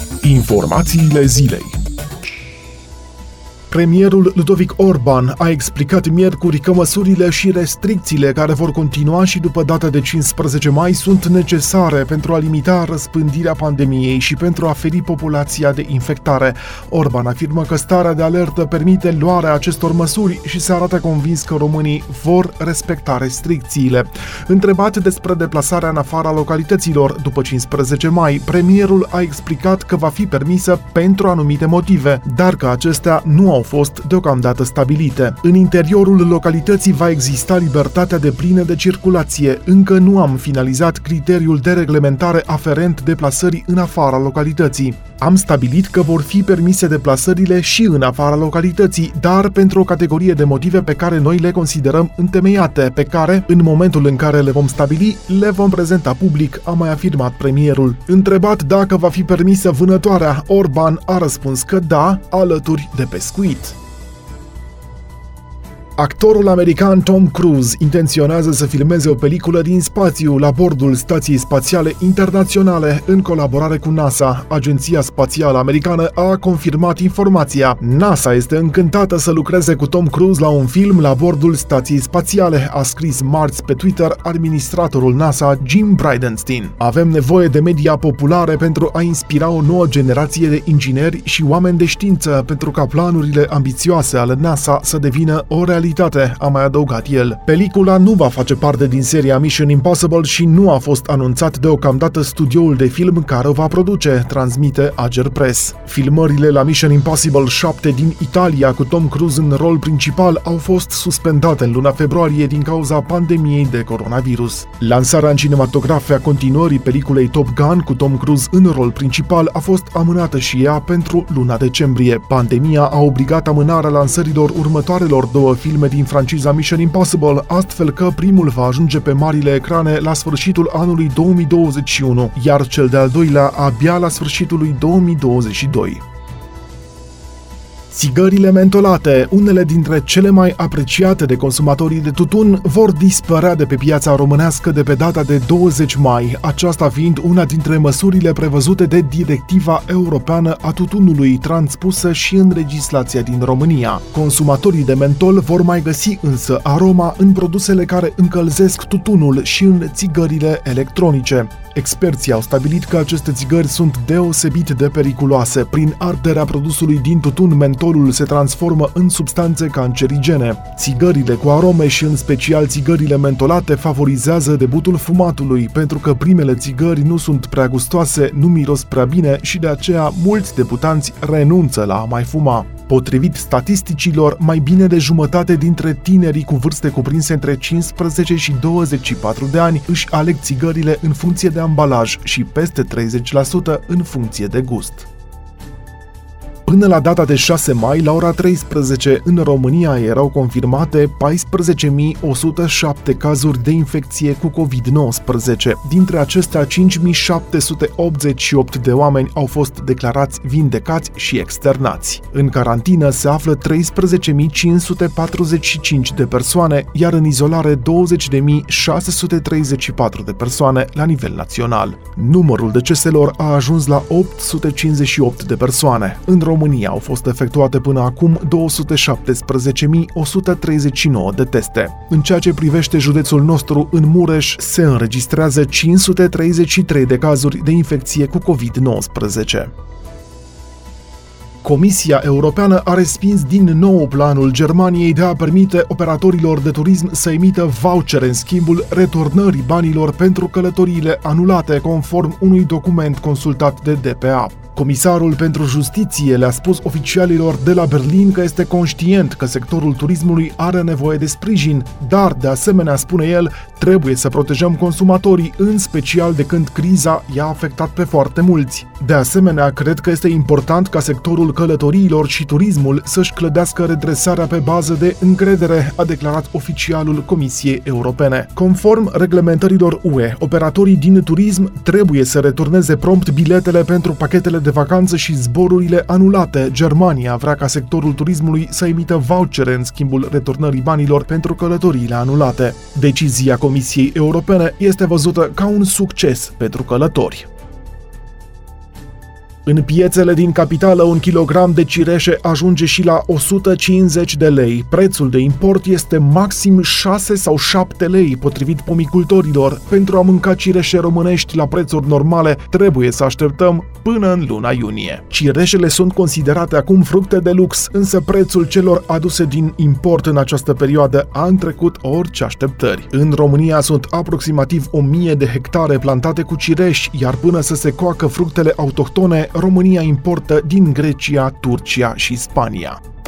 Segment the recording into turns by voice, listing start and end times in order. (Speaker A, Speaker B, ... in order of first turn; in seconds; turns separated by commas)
Speaker A: 0.2-1.8, Speaker A: 3.7-63.8, Speaker A: 66.0-136.0, Speaker A: 137.9-195.1, Speaker A: 196.7-239.7, Speaker A: 241.6-297.5, Speaker A: 299.6-333.0